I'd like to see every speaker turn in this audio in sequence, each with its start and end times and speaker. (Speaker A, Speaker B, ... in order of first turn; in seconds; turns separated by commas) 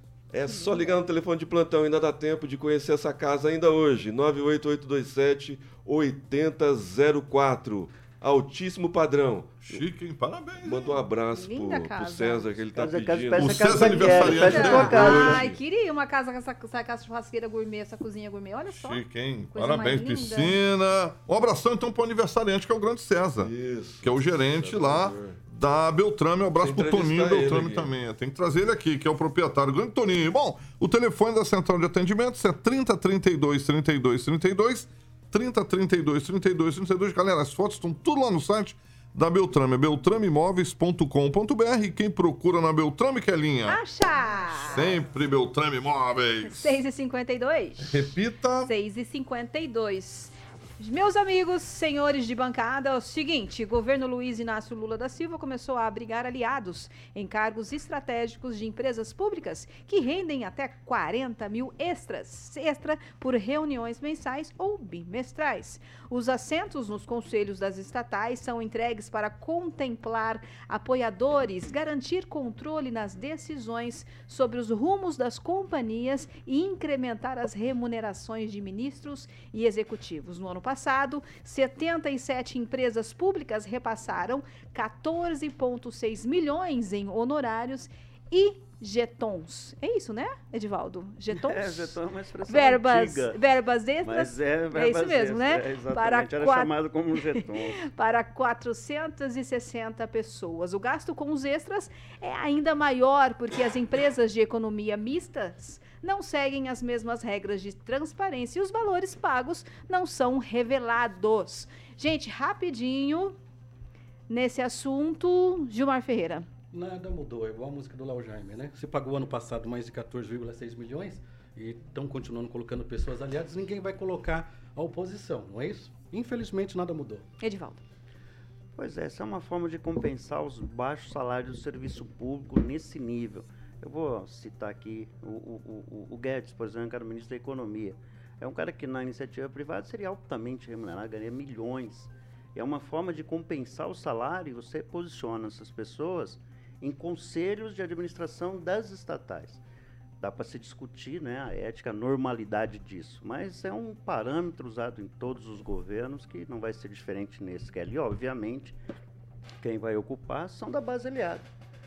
Speaker A: 0.3-9.8, Speaker B: 9.7-11.0, Speaker A: 10.6-15.6, Speaker C: 11.3-12.5, Speaker D: 12.8-15.4, Speaker B: 13.4-15.2, Speaker C: 14.4-20.6, Speaker B: 18.7-23.5, Speaker A: 23.4-25.4, Speaker B: 24.0-43.8, Speaker A: 26.5-27.9, Speaker C: 43.7-45.0, Speaker B: 44.7-46.8, Speaker C: 46.5-48.1, Speaker B: 47.8-48.7, Speaker C: 48.6-92.0, Speaker D: 91.3-93.4, Speaker C: 92.5-96.7, Speaker D: 94.0-97.8, Speaker C: 97.7-113.4, Speaker C: 114.3-116.5, Speaker E: 116.7-127.2, Speaker C: 127.4-127.8, Speaker D: 128.8-149.6, Speaker D: 150.2-158.8, Speaker D: 159.6-161.4